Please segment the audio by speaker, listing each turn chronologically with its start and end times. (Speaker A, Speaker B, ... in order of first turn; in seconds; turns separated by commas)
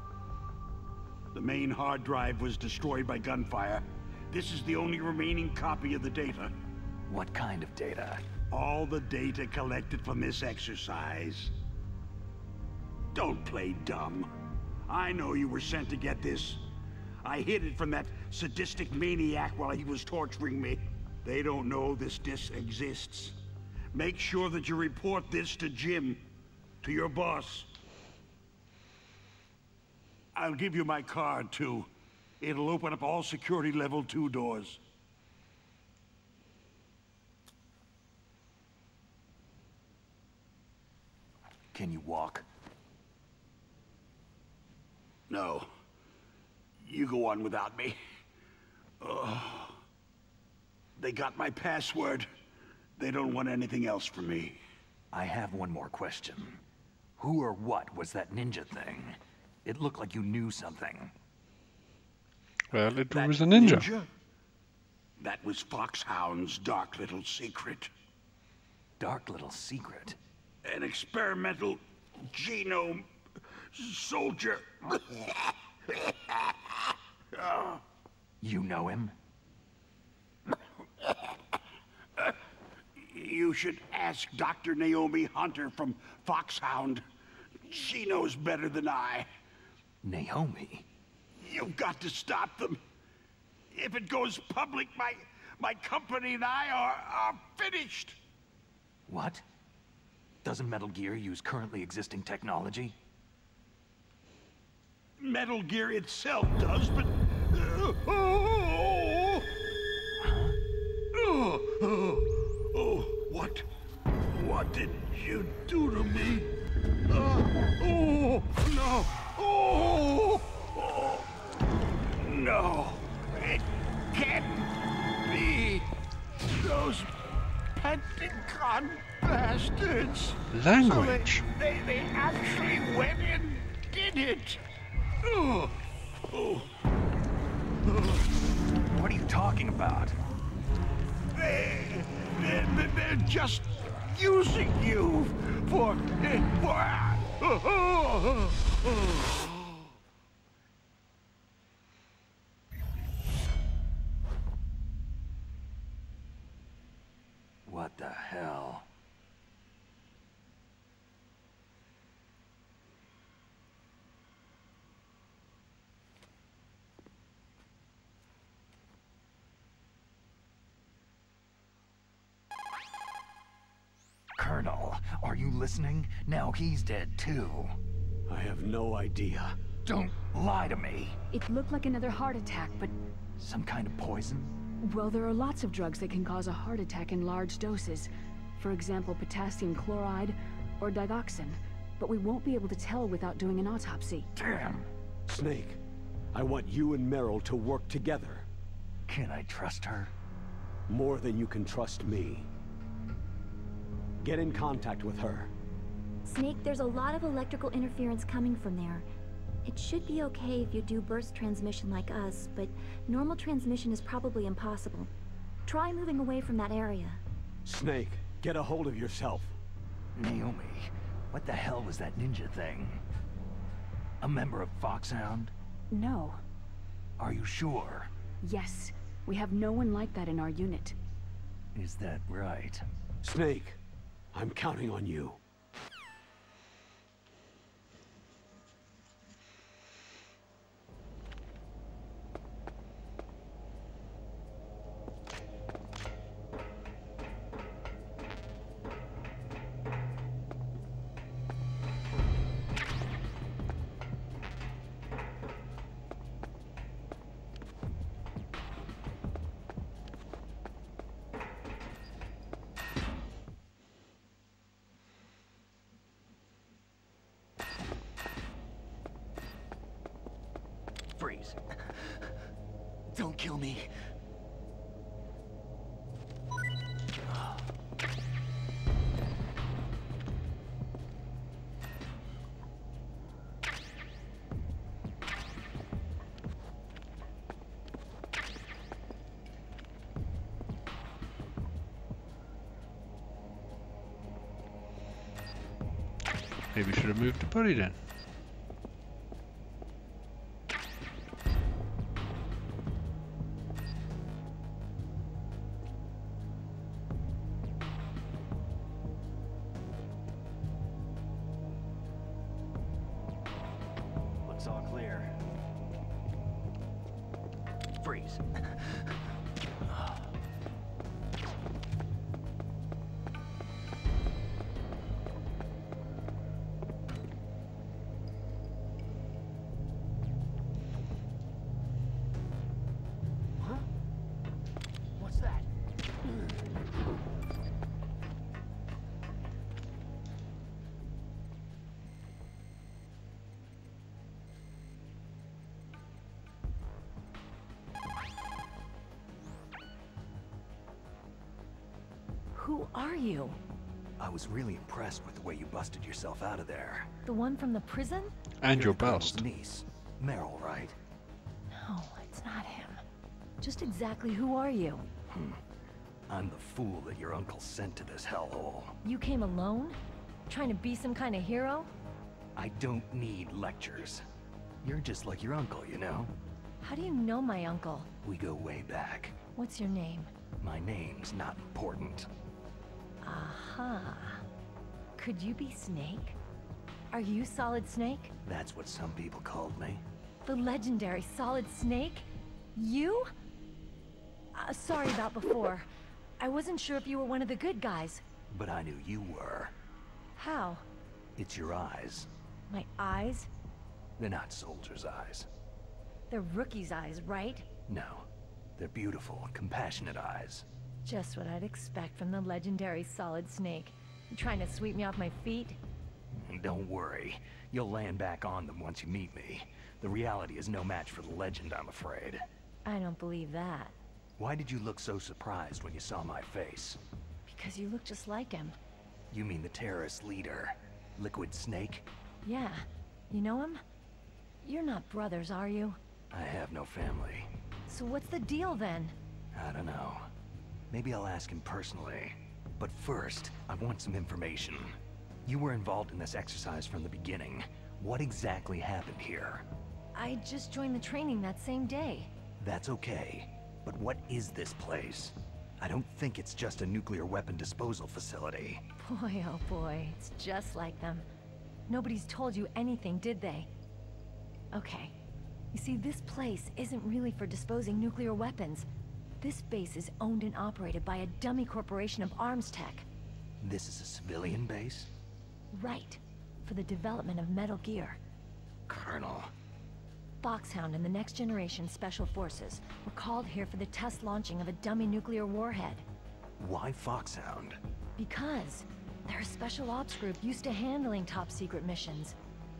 Speaker A: 1.3-6.5, Speaker B: 7.1-8.2, Speaker A: 8.5-11.5, Speaker A: 13.1-14.3, Speaker A: 14.9-16.6, Speaker A: 17.2-23.4, Speaker A: 23.9-26.2, Speaker A: 26.8-27.7, Speaker A: 30.3-31.9, Speaker A: 32.4-34.8, Speaker B: 41.7-42.4, Speaker A: 45.3-45.7, Speaker A: 46.8-48.0, Speaker A: 49.0-49.8, Speaker A: 51.0-52.3, Speaker A: 53.0-54.6, Speaker B: 55.1-56.6, Speaker B: 57.2-61.1, Speaker C: 62.7-63.9, Speaker A: 63.1-64.1, Speaker A: 65.2-67.9, Speaker B: 69.0-70.2, Speaker A: 70.6-73.0, Speaker A: 73.7-76.8, Speaker A: 77.3-77.8, Speaker B: 78.4-79.1, Speaker A: 83.0-87.0, Speaker A: 87.6-89.3, Speaker B: 90.0-90.9, Speaker A: 91.4-92.8, Speaker A: 93.7-98.2, Speaker B: 99.1-99.4, Speaker B: 100.4-103.0, Speaker A: 105.2-109.5, Speaker B: 110.2-110.6, Speaker A: 111.1-113.7, Speaker A: 114.3-116.5, Speaker A: 117.1-121.3, Speaker A: 122.2-125.9, Speaker A: 126.6-127.1, Speaker A: 127.8-134.6, Speaker C: 130.5-131.4, Speaker A: 135.2-135.7, Speaker A: 136.3-136.7, Speaker A: 137.9-138.2, Speaker B: 138.9-140.2, Speaker A: 141.3-149.6, Speaker B: 157.7-158.8, Speaker B: 174.3-177.8, Speaker D: 178.3-179.6, Speaker B: 179.8-181.2, Speaker E: 181.3-182.9, Speaker B: 183.4-184.6, Speaker E: 184.8-194.3, Speaker B: 194.3-194.9, Speaker D: 195.3-195.8, Speaker D: 196.3-198.4, Speaker B: 199.1-200.1, Speaker D: 200.9-202.5, Speaker D: 204.2-205.5, Speaker F: 206.2-209.1, Speaker F: 209.6-215.1, Speaker F: 215.6-217.2, Speaker D: 217.7-219.5, Speaker B: 220.1-223.0, Speaker B: 224.2-225.5, Speaker E: 225.9-226.4, Speaker B: 227.2-228.1, Speaker E: 228.4-230.9, Speaker B: 231.7-232.8, Speaker D: 233.2-233.8, Speaker D: 234.3-235.4, Speaker B: 271.2-272.4, Speaker B: 273.1-273.9, Speaker B: 277.3-277.6, Speaker C: 296.7-297.9, Speaker B: 314.5-315.3, Speaker B: 318.0-319.0, Speaker G: 352.5-353.6, Speaker B: 354.2-357.1, Speaker G: 357.2-358.3, Speaker C: 358.6-359.4, Speaker B: 358.7-360.9, Speaker G: 361.7-363.0, Speaker G: 363.6-365.0, Speaker B: 365.3-365.6, Speaker B: 366.3-368.9, Speaker G: 369.0-371.9, Speaker B: 372.6-374.2, Speaker B: 374.8-376.3, Speaker G: 376.8-378.1, Speaker B: 378.2-379.4, Speaker G: 379.5-380.3, Speaker B: 380.6-382.3, Speaker G: 383.2-384.4, Speaker G: 385.2-386.4, Speaker G: 387.1-388.3, Speaker B: 388.4-390.0, Speaker G: 390.4-393.3, Speaker G: 394.5-395.9, Speaker G: 396.4-398.2, Speaker B: 398.5-399.7, Speaker G: 400.4-400.8, Speaker B: 401.4-402.3, Speaker G: 402.7-403.5, Speaker B: 404.2-405.5, Speaker G: 406.3-407.6, Speaker B: 407.9-410.7, Speaker G: 411.0-415.8, Speaker B: 416.3-422.4, Speaker G: 422.8-423.9, Speaker B: 424.4-427.0, Speaker G: 427.5-428.8, Speaker B: 429.3-432.1, Speaker G: 432.4-433.8, Speaker G: 434.6-436.0, Speaker B: 436.3-437.5, Speaker G: 437.9-439.1, Speaker B: 439.5-440.3, Speaker B: 440.9-449.6, Speaker G: 450.1-452.3, Speaker B: 452.6-458.8, Speaker G: 459.0-461.2, Speaker G: 461.9-463.7, Speaker G: 464.7-465.1, Speaker G: 465.7-468.9, Speaker G: 469.4-473.0, Speaker B: 473.6-475.1, Speaker G: 475.7-478.2, Speaker B: 478.9-479.5, Speaker G: 480.4-486.0, Speaker B: 486.6-487.8, Speaker G: 488.2-492.3